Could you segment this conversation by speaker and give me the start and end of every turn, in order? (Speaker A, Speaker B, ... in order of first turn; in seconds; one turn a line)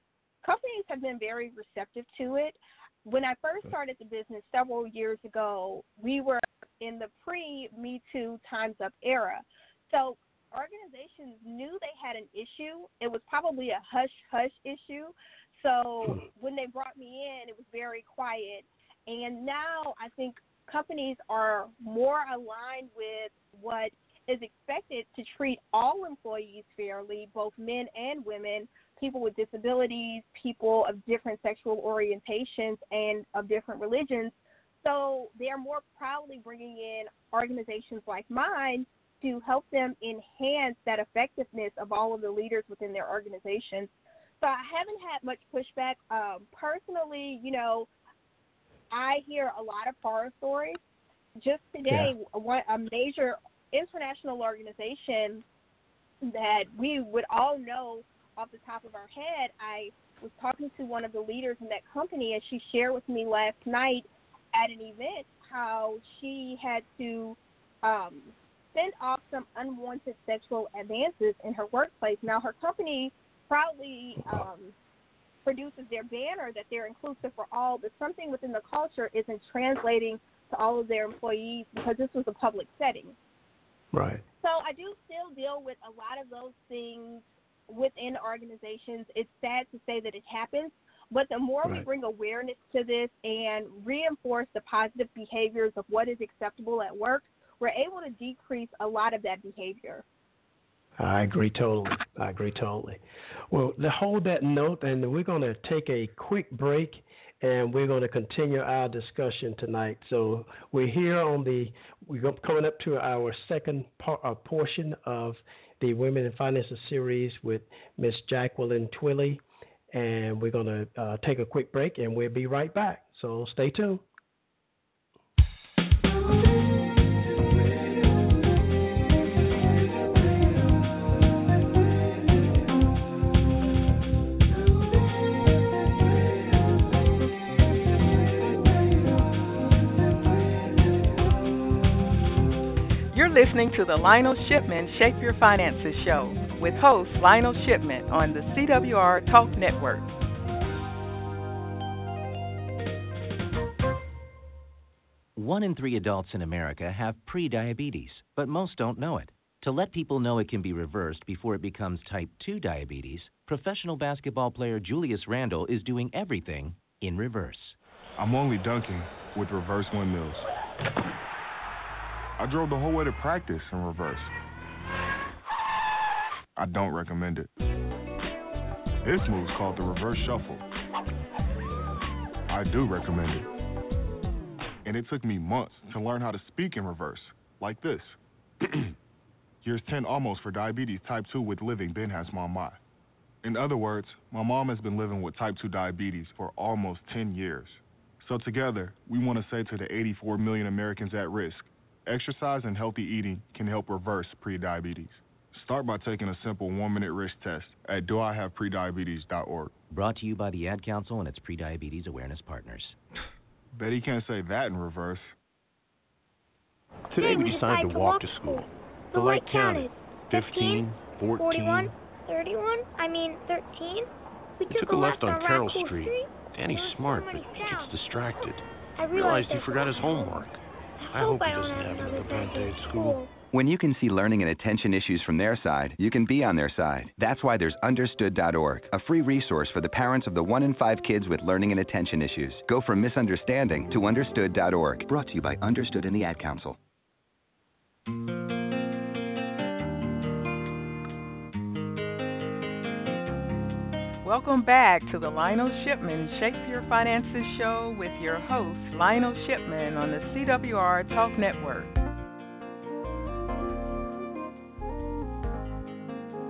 Speaker A: 0.4-47.9
Speaker A: 48.9-50.8
Speaker A: 51.4-55.4
Speaker B: 51.9-52.1
Speaker A: 56.2-74.7
Speaker A: 75.4-83.2
Speaker B: 83.9-84.2
Speaker A: 84.4-100.0
Speaker B: 101.0-124.0
Speaker C: 143.1-150.1
Speaker D: 155.3-167.8
Speaker E: 168.2-170.5
Speaker E: 172.4-174.3
Speaker E: 176.6-177.5
Speaker E: 179.0-180.6
Speaker E: 182.5-183.5
Speaker E: 184.8-188.2
Speaker E: 189.6-192.8
Speaker E: 193.4-209.7
Speaker D: 209.9-212.9
Speaker E: 213.7-215.3
Speaker F: 217.1-221.9
Speaker G: 217.1-227.9
Speaker F: 224.7-233.2
Speaker G: 229.0-230.5
Speaker G: 231.0-233.3
Speaker H: 233.5-246.8
Speaker C: 254.2-261.9